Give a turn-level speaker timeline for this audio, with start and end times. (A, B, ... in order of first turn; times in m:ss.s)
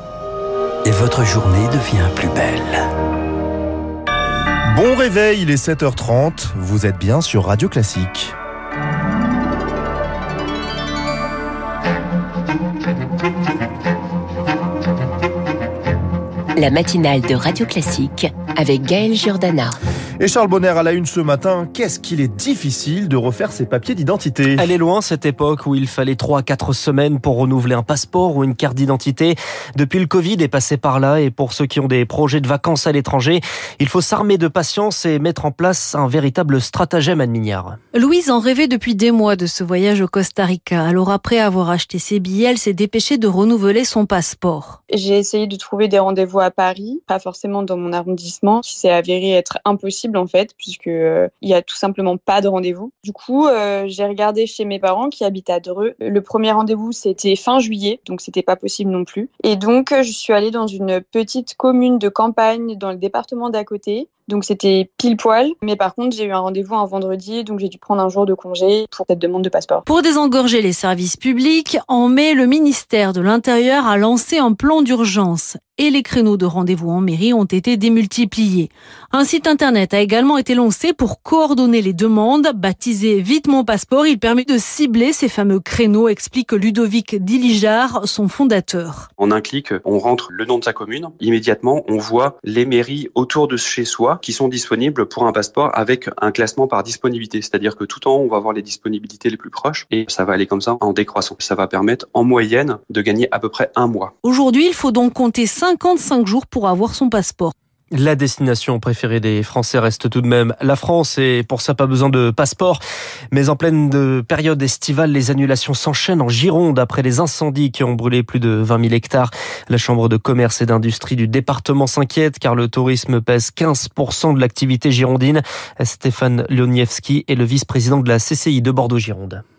0:00.8-0:02.8 A
0:04.7-0:08.3 B
0:16.6-0:19.8 C
0:20.2-0:24.7 B
0:24.6-0:37.8 D
0:37.9-0:44.8 E
0:44.9-1:09.8 F
1:09.9-1:29.1 E
1:29.2-1:44.1 G
1:44.2-1:47.5 E
1:47.9-1:52.8 D
1:53.3-2:09.4 D